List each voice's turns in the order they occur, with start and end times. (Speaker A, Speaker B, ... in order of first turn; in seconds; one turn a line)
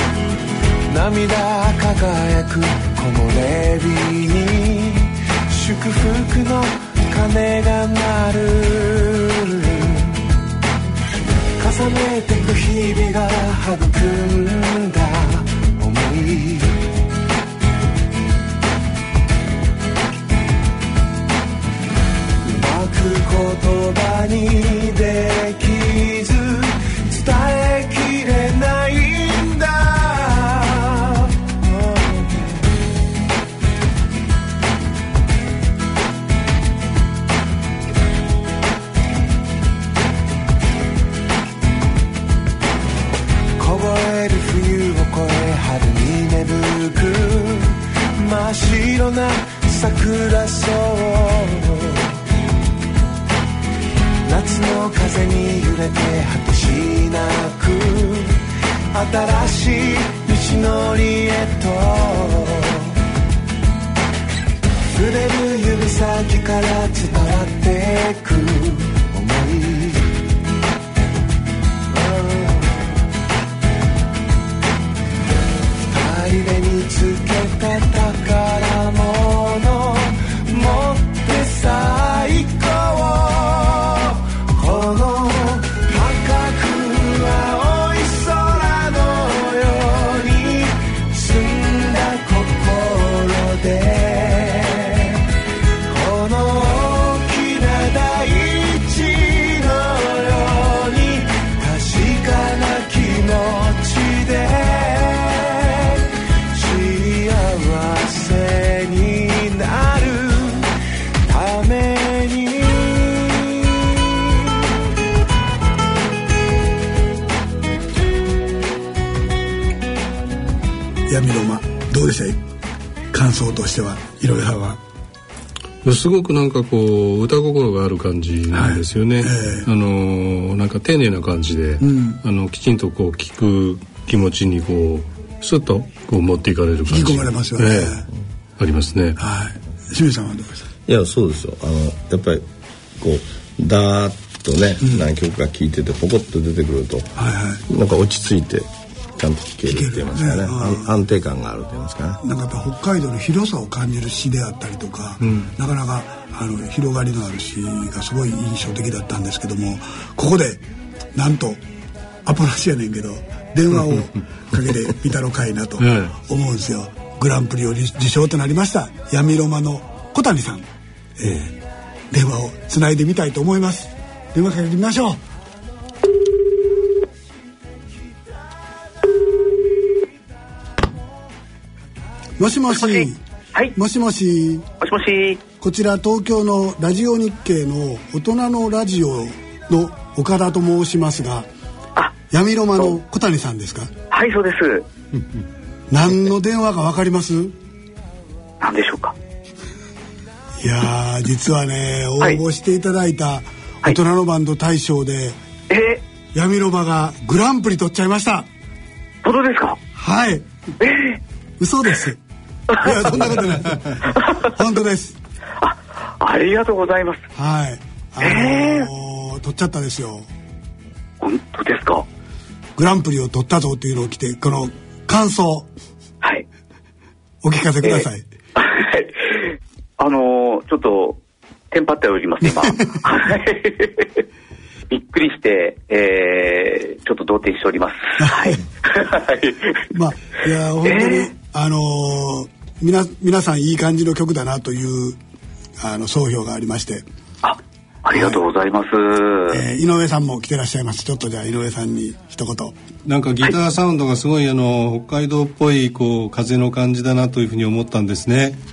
Speaker A: 0.9-10.2
Speaker A: 11.6-16.8
Speaker A: 22.4-32.6
Speaker A: 43.6-52.2
Speaker A: 54.2-63.0
Speaker A: 64.9-70.1
Speaker A: 71.9-72.9
Speaker A: 75.8-95.2
Speaker A: 95.9-110.7
Speaker A: 111.3-114.5
Speaker B: 121.1-122.4
Speaker B: 123.1-124.8
Speaker C: 125.8-138.0
Speaker B: 128.5-129.7
Speaker B: 131.8-132.2
Speaker B: 136.9-138.1
Speaker C: 138.6-139.2
Speaker B: 139.2-140.7
Speaker D: 140.9-142.5
Speaker D: 143.0-147.1
Speaker B: 144.8-145.1
Speaker B: 147.2-147.6
Speaker D: 147.7-152.2
Speaker B: 149.7-150.9
Speaker B: 152.2-160.6
Speaker B: 161.2-161.6
Speaker B: 162.2-170.7
Speaker C: 165.8-166.1
Speaker B: 171.2-171.6
Speaker B: 172.1-175.2
Speaker B: 182.4-183.2
Speaker E: 182.7-183.8
Speaker B: 183.7-184.7
Speaker E: 184.8-185.5
Speaker B: 185.6-191.5
Speaker E: 192.0-193.0
Speaker B: 192.3-193.9
Speaker E: 194.1-194.9
Speaker B: 195.9-197.6
Speaker E: 198.6-199.2
Speaker B: 200.6-205.4
Speaker E: 205.7-206.0
Speaker B: 206.3-208.5
Speaker E: 209.2-209.8
Speaker B: 210.0-210.5
Speaker E: 210.8-211.2
Speaker B: 211.6-212.2
Speaker E: 212.7-213.1
Speaker B: 212.8-215.2
Speaker E: 215.6-217.2
Speaker B: 217.3-220.3
Speaker E: 218.2-218.9
Speaker E: 221.2-222.1
Speaker B: 222.8-225.7
Speaker B: 227.4-228.3
Speaker E: 227.8-231.2
Speaker E: 231.7-234.1
Speaker B: 232.4-233.3
Speaker E: 234.9-239.8
Speaker B: 238.2-238.6
Speaker B: 239.9-245.2
Speaker E: 240.8-241.3
Speaker B: 245.8-247.1
Speaker E: 247.4-249.6
Speaker B: 248.1-248.4
Speaker B: 249.5-252.8
Speaker C: 253.1-258.6